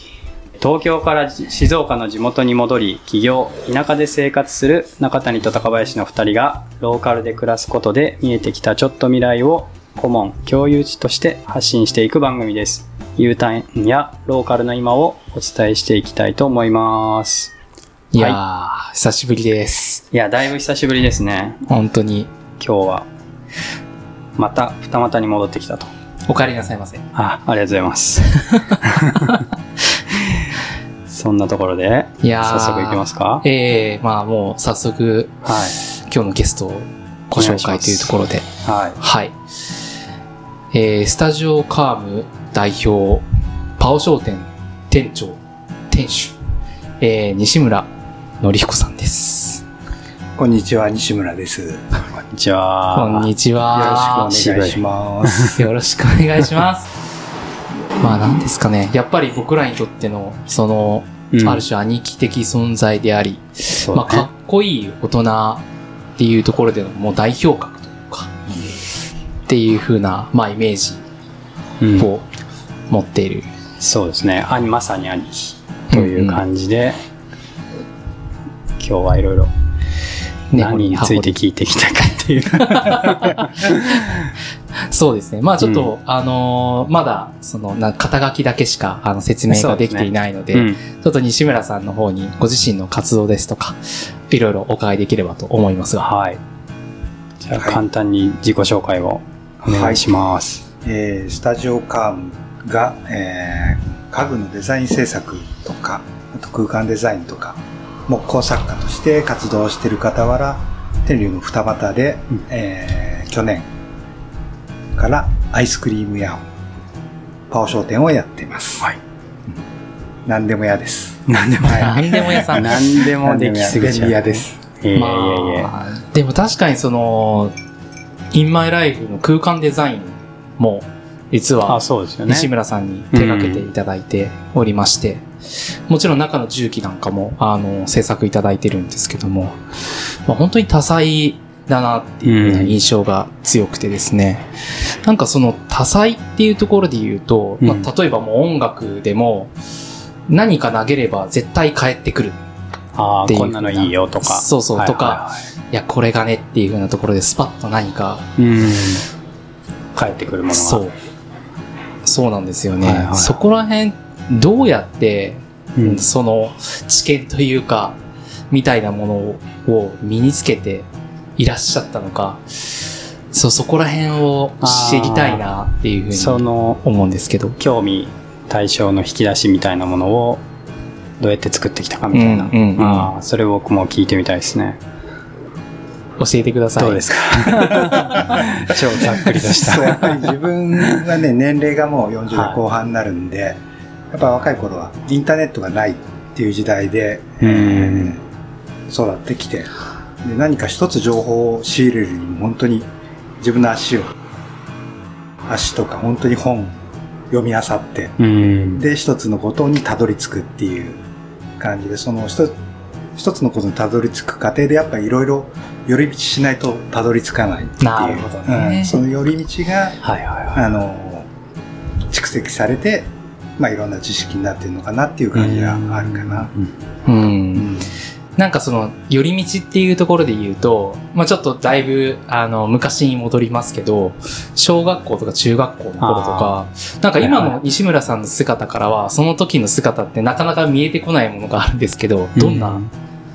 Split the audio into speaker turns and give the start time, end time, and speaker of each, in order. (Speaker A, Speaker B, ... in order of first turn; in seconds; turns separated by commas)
Speaker A: 0.6-17.5, Speaker B: 18.1-20.0, Speaker A: 20.1-21.6, Speaker B: 21.7-22.3, Speaker A: 22.6-23.1, Speaker A: 24.4-25.9, Speaker B: 26.3-27.1, Speaker A: 27.1-29.4, Speaker B: 28.5-28.8, Speaker A: 31.1-33.5, Speaker B: 32.2-38.5, Speaker A: 35.4-35.8, Speaker A: 37.3-39.0, Speaker B: 39.0-39.3, Speaker B: 40.7-43.2, Speaker B: 43.8-45.4, Speaker B: 45.9-46.4, Speaker B: 47.0-47.9, Speaker B: 48.4-49.6, Speaker C: 50.4-52.0, Speaker A: 52.3-53.3, Speaker B: 52.9-54.5, Speaker C: 53.7-55.5, Speaker A: 54.3-55.6, Speaker B: 55.5-56.9, Speaker B: 58.0-65.6, Speaker A: 61.3-61.6, Speaker A: 63.8-64.3, Speaker B: 66.2-68.4, Speaker B: 69.5-71.0, Speaker A: 71.8-72.1, Speaker B: 72.0-72.3, Speaker B: 72.9-73.5, Speaker A: 73.8-77.0, Speaker B: 75.9-76.4, Speaker A: 78.8-79.5, Speaker B: 80.5-81.4, Speaker A: 80.5-84.3, Speaker B: 82.6-83.8, Speaker B: 84.9-96.1, Speaker A: 85.6-85.9, Speaker A: 89.5-90.8, Speaker A: 96.0-96.4, Speaker A: 97.4-100.7, Speaker C: 97.6-97.8, Speaker C: 99.6-100.1, Speaker C: 100.8-113.7, Speaker C: 115.0-116.4, Speaker C: 117.5-118.9, Speaker C: 120.3-124.6, Speaker A: 121.3-125.7, Speaker B: 121.7-122.8, Speaker B: 124.9-127.5, Speaker B: 128.3-139.6, Speaker A: 131.7-132.5, Speaker A: 133.1-133.7, Speaker B: 140.3-144.5, Speaker A: 142.2-142.8, Speaker B: 145.0-149.5, Speaker A: 147.6-147.9, Speaker B: 150.3-152.4, Speaker A: 153.0-155.5, Speaker B: 153.3-158.3, Speaker A: 158.4-159.1, Speaker A: 159.9-160.8, Speaker B: 160.5-160.9, Speaker B: 162.0-168.0, Speaker A: 162.8-163.4, Speaker A: 165.8-166.1, Speaker B: 168.5-177.6, Speaker A: 174.6-175.4, Speaker A: 176.1-176.8, Speaker A: 177.6-180.4, Speaker A: 181.2-184.8, Speaker B: 182.1-183.1, Speaker B: 186.2-188.0, Speaker A: 186.8-190.3, Speaker C: 189.5-198.2, Speaker A: 190.8-191.0, Speaker A: 192.3-192.6, Speaker A: 197.4-198.2, Speaker C: 198.9-199.7, Speaker C: 200.2-202.9, Speaker C: 203.4-204.1, Speaker C: 205.5-206.8, Speaker C: 207.3-208.2, Speaker A: 208.2-208.8, Speaker C: 208.7-211.0, Speaker C: 211.6-212.6, Speaker C: 213.2-220.0, Speaker B: 217.8-219.0, Speaker A: 220.0-220.7, Speaker C: 220.5-221.3, Speaker C: 222.1-226.5, Speaker A: 225.3-226.7, Speaker B: 227.1-227.8, Speaker C: 227.6-227.9, Speaker B: 228.4-242.8, Speaker A: 236.0-236.6, Speaker A: 237.2-237.6, Speaker A: 242.4-242.9